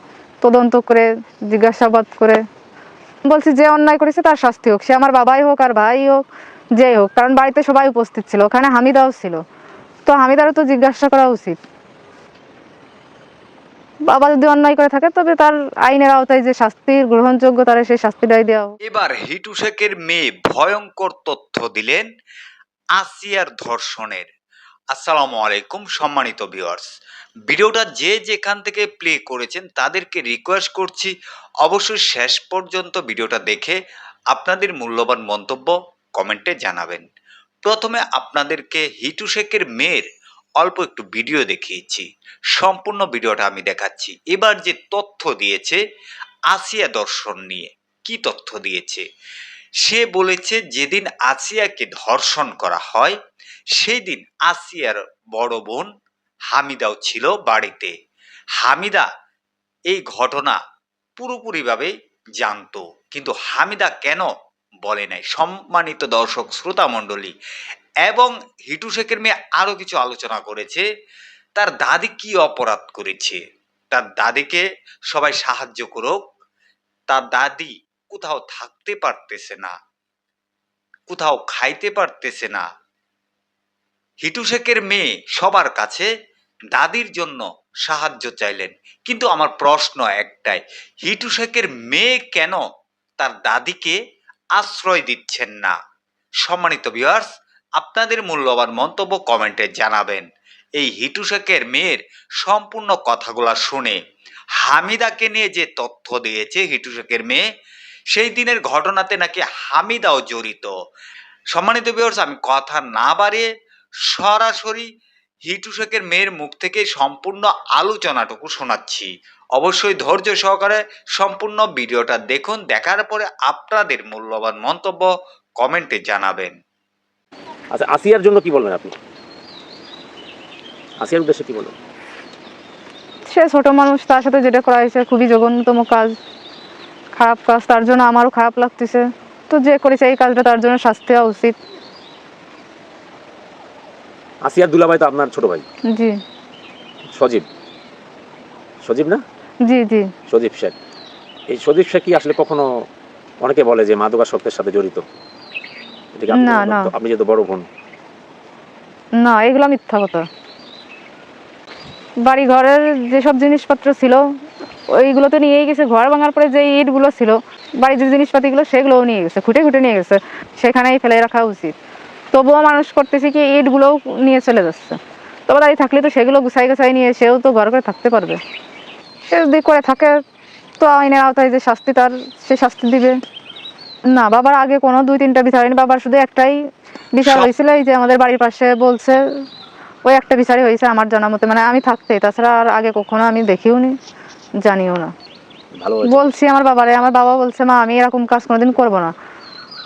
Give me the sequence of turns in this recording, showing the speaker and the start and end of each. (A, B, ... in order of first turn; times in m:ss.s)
0:00.4-0:02.4 A
0:03.2-0:06.2 A
0:06.8-0:09.4 A
0:10.0-0:11.6 A
0:14.1-0:18.7 A
0:18.8-0:22.1 B
0:23.0-0:24.3 B
0:24.9-0:26.9 B
0:27.5-0:33.8 B
0:34.3-0:37.0 B
0:37.6-0:40.0 B
0:40.6-0:45.8 B
0:46.5-0:49.0 B
0:49.8-0:53.2 B
0:53.8-0:55.9 B
0:56.5-0:57.9 B
0:58.6-0:59.1 B
0:59.9-1:00.6 B
1:01.2-1:04.3 B
1:04.8-1:07.3 B
1:08.0-1:10.8 B
1:11.6-1:16.2 B
1:17.1-1:19.7 B
1:21.1-1:22.6 B
1:24.2-1:26.1 B
1:26.7-1:32.6 B
1:33.2-1:34.0 B
1:34.6-1:35.8 B
1:36.4-1:44.0 B
1:44.6-1:47.4 B
1:48.1-1:50.7 B
1:51.5-1:53.5 B
1:54.1-1:54.9 B
1:55.5-2:06.6 B
2:07.7-2:08.9 C
2:11.0-2:11.7 C
2:13.3-2:16.1 A
2:17.1-2:21.6 A
2:24.4-2:25.6 C
2:25.9-2:26.2 A
2:27.1-2:27.5 C
2:28.8-2:29.2 C
2:29.6-2:30.1 A
2:30.3-2:30.7 C
2:31.5-2:32.7 C
2:33.4-2:35.0 C
2:36.2-2:37.6 C
2:36.3-2:36.9 A
2:39.2-2:40.2 A
2:42.2-2:44.2 A
2:44.9-2:51.7 A
2:52.3-2:58.4 A
2:59.3-3:00.2 A
3:00.8-3:03.2 A
3:04.1-3:06.6 A
3:07.1-3:09.2 A
3:10.0-3:14.0 A
3:14.6-3:15.1 A
3:15.8-3:16.3 C
3:16.0-3:19.1 A